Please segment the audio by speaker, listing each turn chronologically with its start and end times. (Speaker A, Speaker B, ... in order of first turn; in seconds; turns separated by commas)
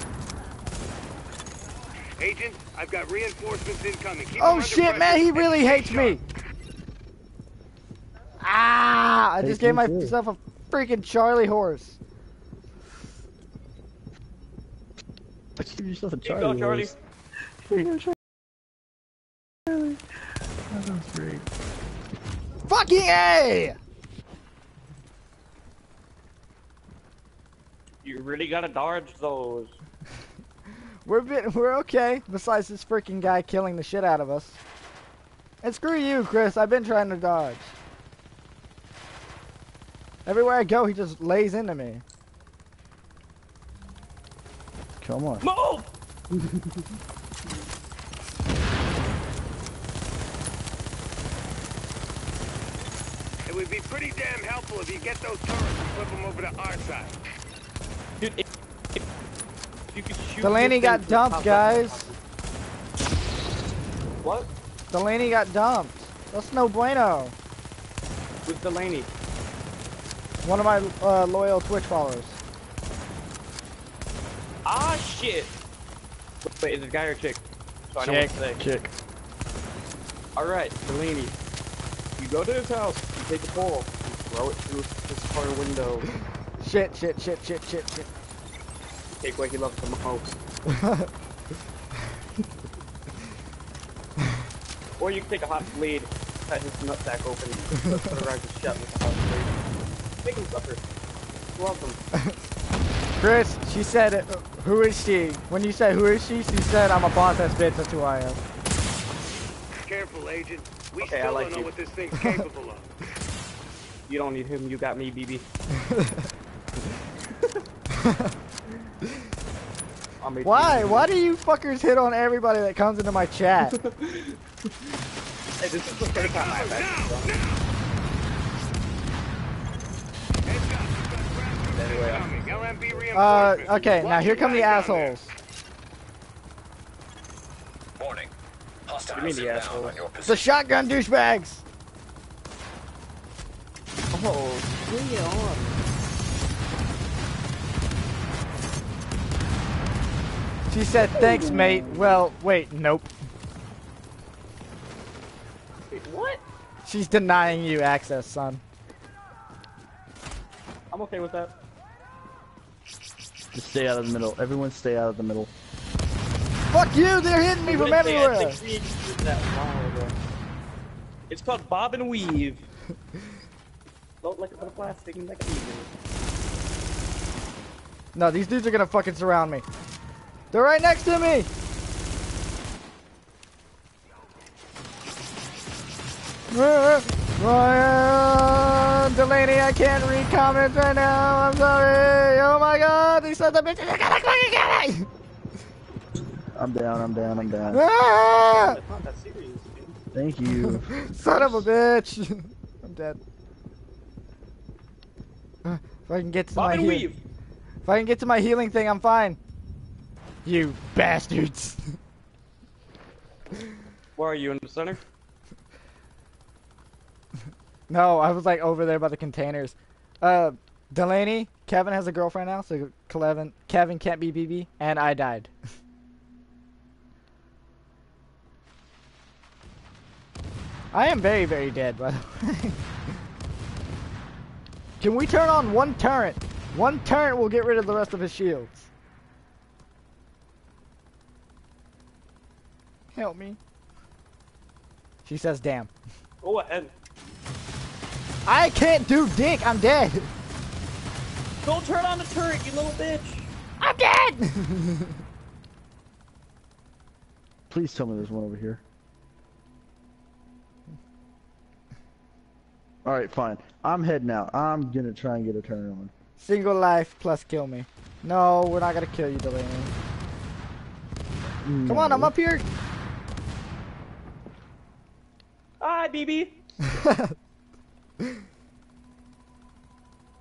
Speaker A: 2.2-6.2, Speaker B: 4.4-6.2, Speaker B: 8.4-12.0, Speaker C: 9.4-10.2, Speaker C: 15.6-16.9, Speaker D: 16.2-17.0, Speaker C: 17.6-18.1, Speaker C: 19.7-20.0, Speaker C: 20.7-21.5, Speaker B: 22.6-23.8, Speaker D: 28.0-29.8, Speaker B: 31.1-34.6, Speaker B: 35.6-37.8, Speaker B: 40.3-42.0, Speaker C: 45.0-45.5, Speaker D: 45.4-46.8, Speaker A: 53.5-57.2, Speaker D: 58.2-58.4, Speaker D: 59.9-62.2, Speaker B: 60.4-62.1, Speaker D: 64.2-64.5, Speaker B: 64.9-67.3, Speaker D: 68.5-69.1, Speaker B: 70.4-72.4, Speaker D: 74.7-75.6, Speaker D: 76.4-78.7, Speaker B: 78.0-78.3, Speaker C: 78.6-78.9, Speaker D: 80.4-81.4, Speaker D: 82.2-86.1, Speaker B: 86.6-88.1, Speaker D: 89.2-90.3, Speaker B: 90.7-91.1, Speaker D: 95.0-99.6, Speaker D: 100.2-100.8, Speaker D: 101.5-102.0, Speaker B: 103.2-108.4, Speaker A: 109.8-112.9, Speaker D: 111.0-111.7, Speaker D: 114.1-115.5, Speaker B: 115.9-116.2, Speaker B: 118.0-118.3, Speaker D: 120.2-121.1, Speaker B: 120.4-123.8, Speaker D: 123.6-124.7, Speaker D: 125.6-127.3, Speaker A: 126.1-127.7, Speaker A: 130.5-135.2, Speaker D: 131.7-135.1, Speaker B: 133.1-135.3, Speaker E: 138.0-138.3, Speaker E: 138.9-140.4, Speaker D: 139.1-140.0, Speaker B: 140.3-141.6, Speaker D: 144.1-145.8, Speaker B: 150.7-153.1, Speaker D: 151.1-152.1, Speaker D: 155.9-156.4, Speaker B: 156.8-158.6, Speaker D: 160.9-161.5, Speaker C: 163.5-165.5, Speaker B: 166.7-168.6, Speaker D: 167.7-170.2, Speaker D: 171.3-172.7, Speaker D: 174.2-175.9, Speaker B: 178.2-179.6, Speaker B: 180.5-181.5, Speaker B: 186.5-195.1, Speaker C: 196.6-197.8, Speaker D: 197.3-197.9, Speaker B: 197.7-198.8, Speaker D: 198.5-200.0, Speaker C: 200.1-200.9, Speaker B: 200.7-203.2, Speaker D: 201.2-201.6, Speaker B: 205.6-207.1, Speaker D: 206.6-207.2, Speaker B: 207.9-209.4, Speaker B: 210.4-212.0, Speaker D: 214.2-215.0, Speaker B: 217.9-225.5, Speaker B: 230.9-232.8, Speaker B: 235.0-238.9, Speaker B: 243.1-243.6, Speaker B: 245.2-245.9, Speaker D: 246.4-246.9, Speaker B: 248.5-250.3, Speaker D: 251.6-253.5, Speaker B: 253.8-255.2, Speaker C: 257.7-258.8, Speaker C: 263.0-266.1, Speaker B: 266.4-269.9, Speaker C: 271.6-272.3, Speaker B: 271.9-272.6, Speaker D: 275.8-276.6, Speaker B: 276.9-277.4